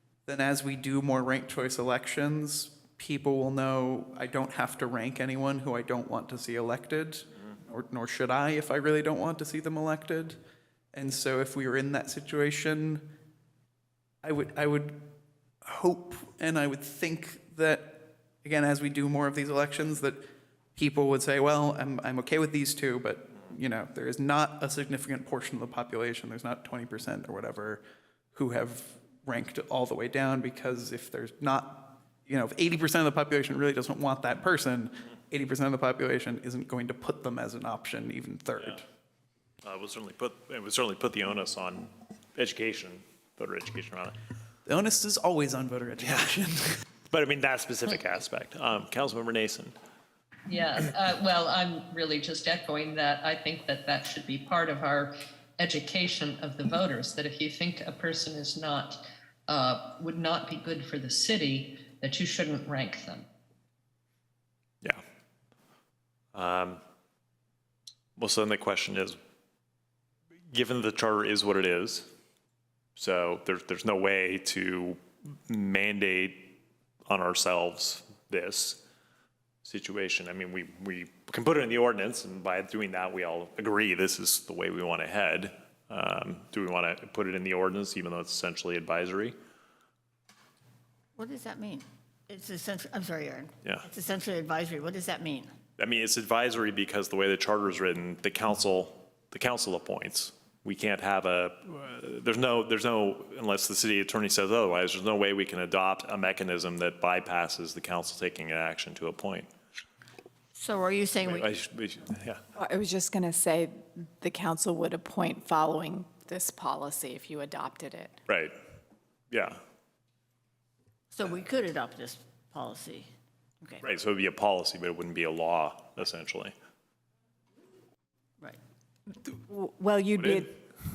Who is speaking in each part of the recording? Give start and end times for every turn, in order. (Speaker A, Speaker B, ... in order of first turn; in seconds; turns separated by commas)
Speaker A: 0.2-10.4, Speaker A: 10.9-13.1, Speaker A: 14.2-15.1, Speaker A: 15.6-27.8, Speaker A: 28.3-38.8, Speaker B: 39.6-44.1, Speaker A: 44.6-46.8, Speaker B: 46.0-46.4, Speaker B: 47.1-49.7, Speaker C: 50.5-63.2, Speaker B: 66.3-66.8, Speaker B: 68.2-69.2, Speaker B: 70.5-72.1, Speaker B: 73.0-78.8, Speaker B: 79.6-89.3, Speaker D: 91.2-95.5, Speaker B: 95.8-109.5, Speaker D: 110.5-111.5, Speaker B: 111.2-112.4, Speaker E: 112.5-118.2, Speaker B: 118.3-118.5, Speaker B: 119.3-119.6, Speaker D: 121.1-123.1, Speaker B: 123.8-126.5, Speaker E: 129.3-130.6, Speaker B: 130.2-130.5